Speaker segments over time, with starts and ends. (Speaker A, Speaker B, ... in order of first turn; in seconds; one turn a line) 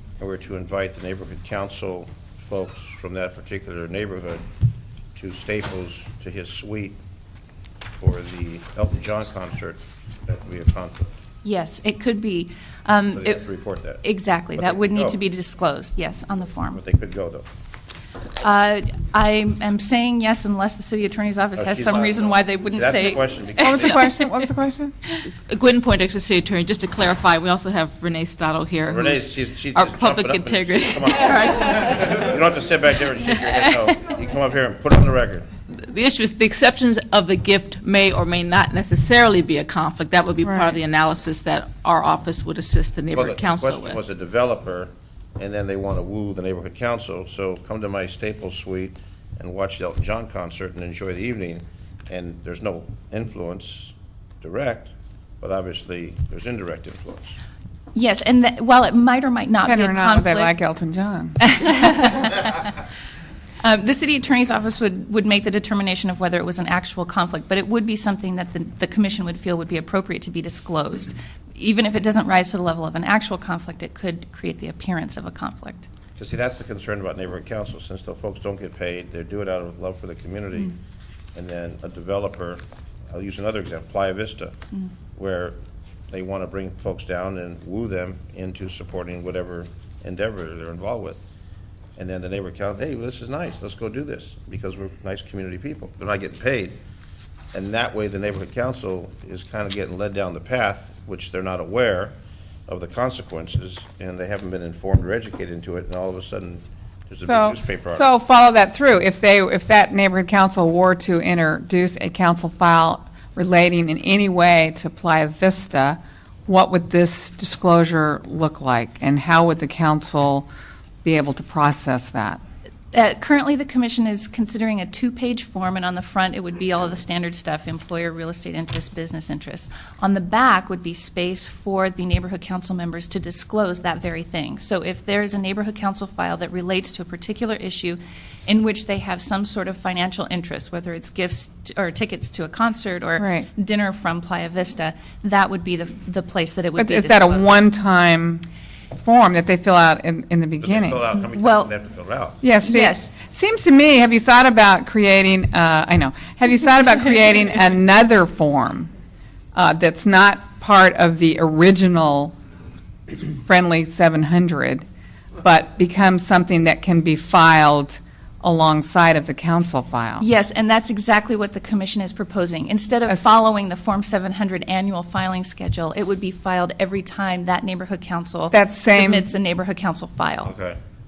Speaker A: 0.2-4.5
Speaker A: 5.2-7.0
Speaker A: 8.0-11.1
Speaker B: 11.4-13.4
Speaker A: 13.1-14.0
Speaker B: 14.0-16.8
Speaker A: 14.6-15.2
Speaker A: 16.7-17.5
Speaker B: 18.4-24.4
Speaker A: 21.6-24.1
Speaker C: 23.6-24.9
Speaker D: 25.5-32.2
Speaker A: 28.9-35.5
Speaker D: 35.7-44.0
Speaker C: 40.5-40.8
Speaker A: 43.1-57.4
Speaker B: 58.0-60.5
Speaker C: 59.6-61.5
Speaker B: 61.5-62.6
Speaker B: 63.6-75.9
Speaker A: 76.2-80.8
Speaker A: 81.3-84.5
Speaker A: 85.2-85.6
Speaker A: 86.1-91.2
Speaker A: 92.0-96.8
Speaker A: 97.5-102.1
Speaker A: 102.7-108.0
Speaker C: 107.2-120.5
Speaker C: 121.0-122.4
Speaker B: 122.9-147.6
Speaker C: 143.2-143.5
Speaker C: 146.8-151.0
Speaker A: 150.6-152.4
Speaker B: 151.3-151.7
Speaker C: 152.4-158.9
Speaker B: 152.6-153.1
Speaker C: 159.6-162.3
Speaker C: 163.1-164.9
Speaker C: 165.4-170.2
Speaker B: 170.2-180.5
Speaker C: 178.5-179.3
Speaker A: 180.4-180.8